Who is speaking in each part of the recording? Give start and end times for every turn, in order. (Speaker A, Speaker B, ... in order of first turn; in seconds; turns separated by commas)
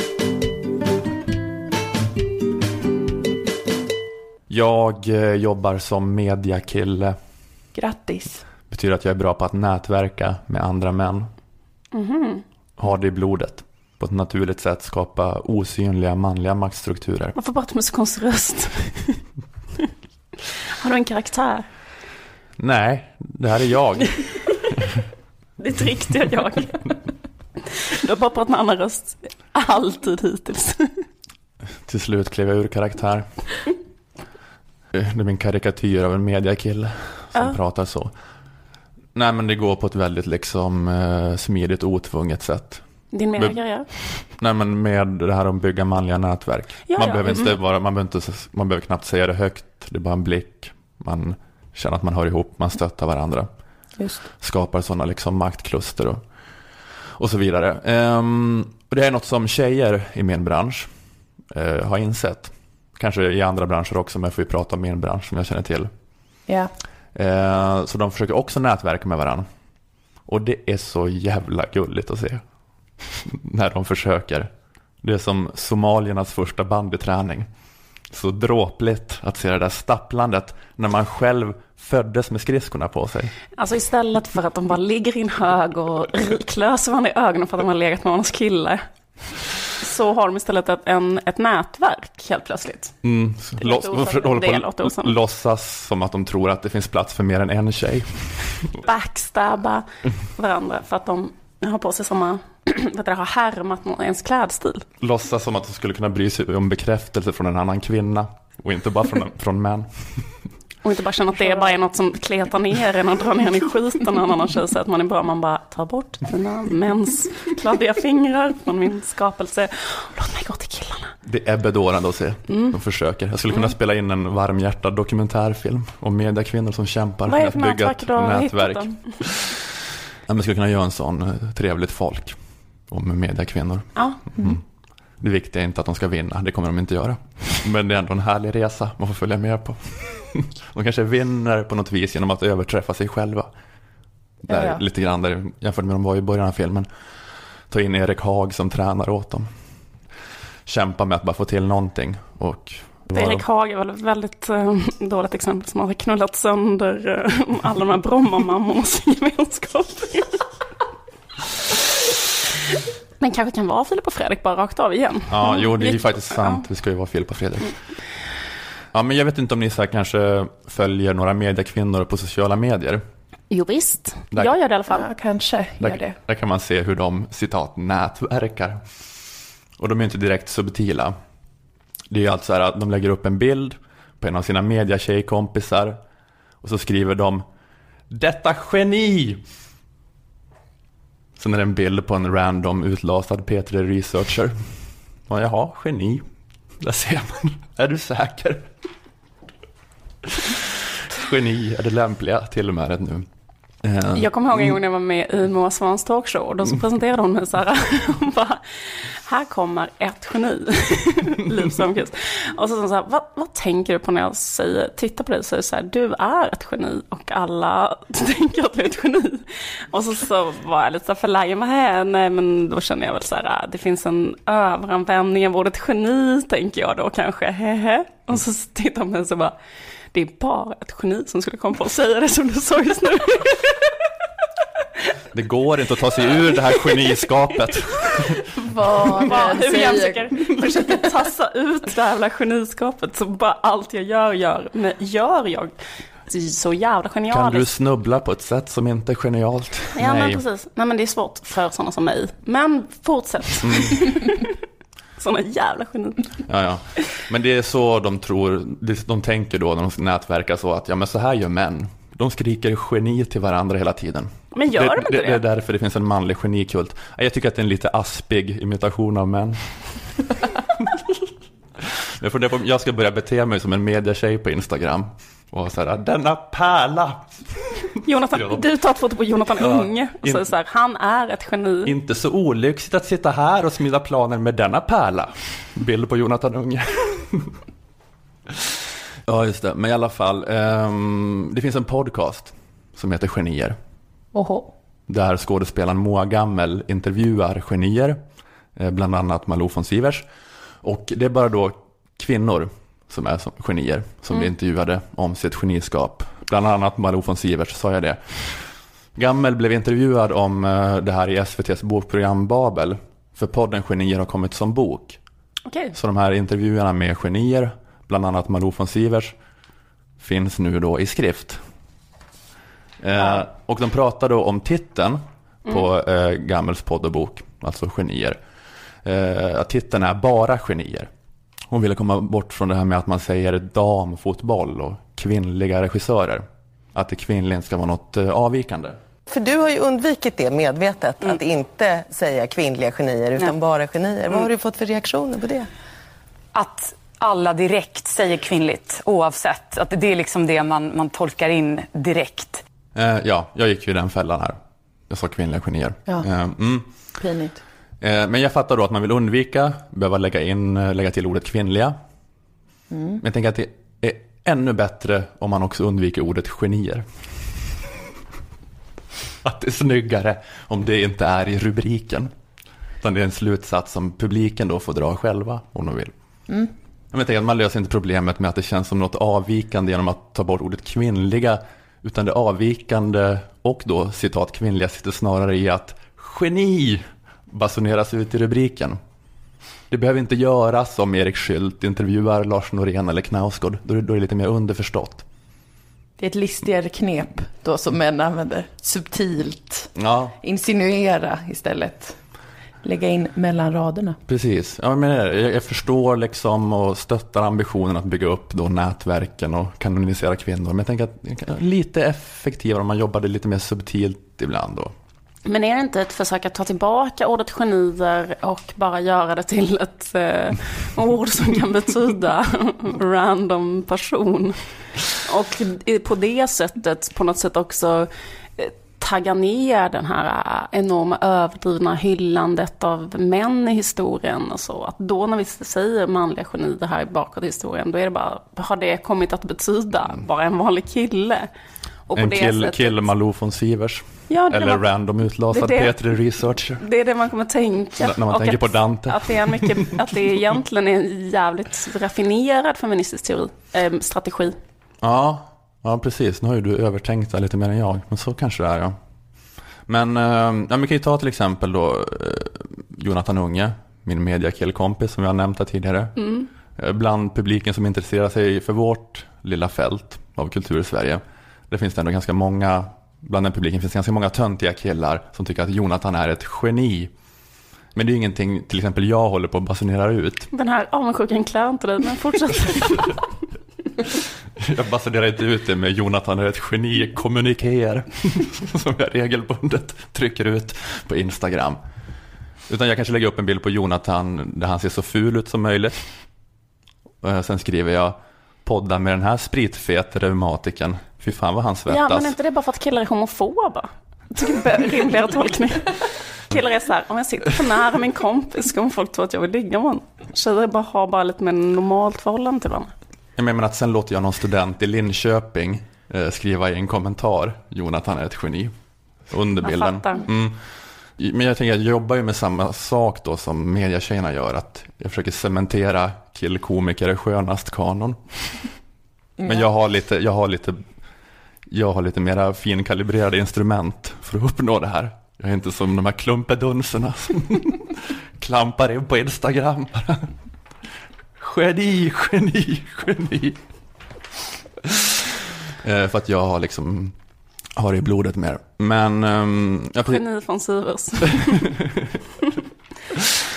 Speaker A: 4.5-7.2, Speaker B: 7.8-8.4, Speaker A: 8.7-11.3, Speaker C: 11.9-12.4, Speaker A: 12.8-17.4, Speaker C: 17.4-19.2, Speaker C: 20.8-21.7, Speaker A: 22.6-25.0, Speaker C: 25.6-26.9, Speaker C: 27.7-31.0, Speaker A: 31.8-33.4, Speaker A: 34.9-38.1, Speaker A: 39.1-53.5, Speaker C: 43.1-43.9, Speaker C: 46.9-47.6, Speaker B: 54.0-54.2, Speaker A: 54.4-56.2, Speaker A: 57.2-60.9, Speaker A: 61.5-65.9, Speaker A: 67.1-69.5, Speaker A: 70.3-72.4, Speaker A: 73.2-74.5, Speaker A: 75.0-77.5, Speaker A: 78.1-83.3, Speaker C: 83.6-88.8, Speaker C: 89.8-93.0, Speaker A: 93.0-98.8, Speaker C: 93.6-95.2, Speaker C: 98.8-104.8, Speaker A: 105.0-110.4, Speaker C: 110.8-121.1, Speaker A: 121.2-129.6, Speaker C: 122.5-122.8, Speaker C: 127.3-129.3, Speaker A: 130.3-132.4, Speaker A: 132.9-134.6, Speaker A: 135.2-143.5, Speaker A: 144.4-146.9, Speaker B: 144.5-144.8, Speaker A: 147.7-149.5, Speaker A: 150.7-153.4, Speaker C: 153.1-160.4, Speaker C: 163.2-166.6, Speaker A: 165.3-167.7, Speaker A: 168.9-173.0, Speaker C: 173.5-175.1, Speaker B: 174.9-176.2, Speaker A: 175.8-178.8, Speaker A: 179.8-181.2, Speaker A: 182.1-186.0, Speaker A: 186.6-187.4, Speaker A: 188.1-189.4, Speaker A: 191.4-194.7, Speaker A: 195.3-196.2, Speaker A: 196.8-198.7, Speaker A: 200.3-203.3, Speaker A: 203.8-204.8, Speaker C: 204.1-229.6, Speaker C: 230.1-234.0, Speaker A: 235.3-238.5, Speaker B: 238.6-240.9, Speaker C: 239.2-245.7, Speaker C: 246.3-247.7, Speaker A: 247.3-250.4, Speaker C: 250.0-254.6, Speaker A: 253.6-253.9, Speaker C: 255.2-256.4, Speaker A: 256.5-269.6, Speaker C: 264.5-265.4, Speaker A: 270.8-271.2, Speaker A: 271.8-278.6, Speaker C: 278.0-281.9, Speaker A: 279.6-280.5, Speaker A: 281.9-287.6, Speaker A: 289.3-293.8, Speaker B: 294.3-294.7, Speaker A: 295.1-298.2, Speaker A: 298.8-300.3, Speaker A: 300.8-308.6, Speaker A: 309.2-315.2, Speaker C: 315.7-315.9, Speaker A: 315.9-319.4, Speaker A: 320.2-321.6, Speaker A: 323.0-328.4, Speaker A: 329.0-331.1, Speaker A: 331.7-339.0, Speaker D: 339.3-345.7, Speaker E: 346.5-352.6, Speaker A: 352.9-354.6, Speaker A: 355.1-356.9, Speaker B: 357.2-357.6, Speaker A: 358.0-362.0, Speaker B: 362.9-363.2, Speaker A: 363.2-367.7, Speaker A: 369.4-372.3, Speaker A: 373.0-376.1, Speaker A: 377.1-389.0, Speaker A: 389.9-395.2, Speaker B: 396.2-399.9, Speaker A: 400.0-400.4, Speaker B: 400.4-402.2, Speaker B: 402.8-404.2, Speaker A: 404.3-414.9, Speaker C: 415.5-424.6, Speaker C: 425.1-441.5, Speaker C: 442.1-443.1, Speaker A: 442.1-446.8, Speaker C: 444.3-444.9, Speaker C: 445.5-446.0, Speaker C: 446.8-454.6, Speaker A: 448.0-449.9, Speaker A: 455.0-459.0, Speaker A: 459.9-466.2, Speaker C: 466.2-466.5, Speaker A: 466.8-477.1, Speaker A: 477.9-480.5, Speaker C: 480.5-483.3, Speaker A: 484.6-491.8, Speaker A: 492.7-496.1, Speaker A: 497.2-502.4, Speaker C: 501.9-512.9, Speaker A: 513.4-518.7, Speaker A: 519.3-528.7, Speaker C: 519.6-520.3, Speaker A: 529.4-530.8, Speaker A: 531.7-540.3, Speaker A: 541.4-543.6, Speaker A: 544.8-547.1, Speaker A: 547.8-550.2, Speaker C: 550.1-551.7, Speaker A: 551.3-552.2